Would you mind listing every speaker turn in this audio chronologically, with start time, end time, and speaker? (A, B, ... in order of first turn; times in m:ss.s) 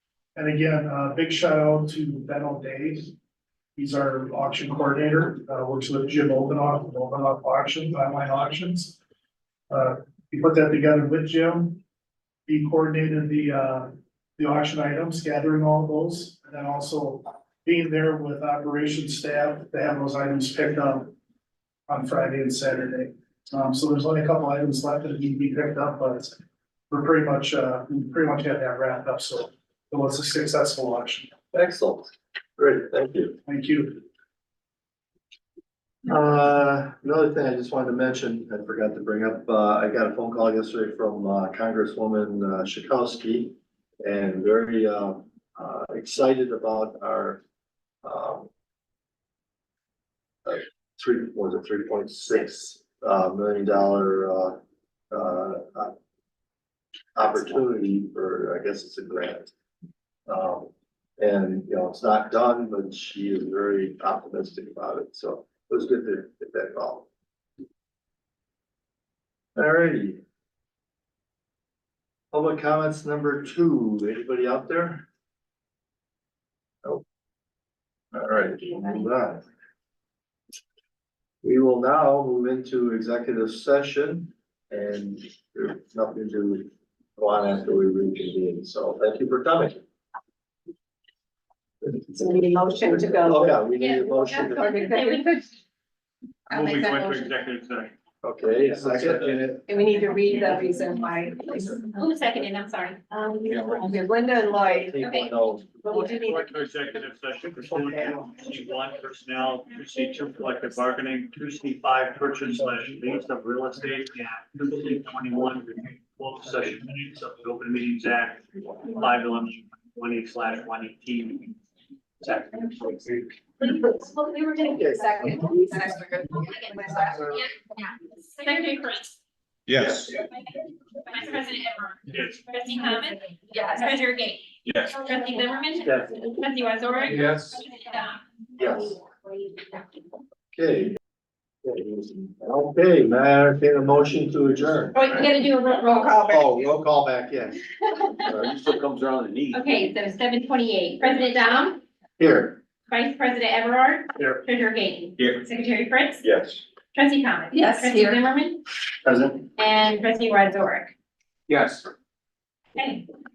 0:00.3-0:03.1 A
0:03.8-0:09.0 A
0:09.7-0:11.8 A
0:12.5-0:21.2 A
0:21.9-0:26.4 A
0:26.9-0:31.3 A
0:31.5-0:33.4 B
0:33.5-0:34.0 A
0:36.0-0:47.4 B
0:48.0-0:48.5 B
0:50.4-0:54.6 B
0:55.1-0:55.9 B
0:57.1-0:59.5 B
1:00.3-1:07.1 B
1:09.6-1:10.2 B
1:12.3-1:15.0 B
1:18.1-1:19.4 B
1:21.4-1:29.8 B
1:31.9-1:33.5 C
1:32.9-1:34.9 B
1:33.8-1:35.3 D
1:34.4-1:35.4 C
1:36.5-1:37.9 E
1:36.5-1:37.3 C
1:38.2-1:39.5 B
1:38.8-1:39.6 F
1:39.6-1:41.9 C
1:41.9-1:43.0 D
1:43.1-1:45.0 C
1:44.7-1:45.7 B
1:45.0-1:45.5 D
1:45.8-1:46.5 C
1:45.9-2:01.6 E
2:02.2-2:03.3 E
2:03.8-2:07.4 C
2:08.4-2:09.1 D
2:09.7-2:10.1 F
2:11.0-2:18.2 D
2:12.1-2:12.4 E
2:13.5-2:13.9 C
2:14.6-2:15.0 F
2:15.8-2:16.2 B
2:17.1-2:17.6 F
2:18.6-2:19.0 B
2:20.5-2:21.0 B
2:21.6-2:25.2 B
2:24.9-2:26.4 D
2:25.4-2:26.7 C
2:26.3-2:27.6 B
2:28.2-2:28.5 B
2:28.3-2:29.6 F
2:29.5-2:31.8 D
2:32.2-2:32.6 B
2:32.9-2:36.2 D
2:36.2-2:36.6 F
2:36.9-2:38.6 D
2:37.5-2:38.2 C
2:39.4-2:40.9 D
2:41.5-2:41.9 F
2:42.8-2:43.0 D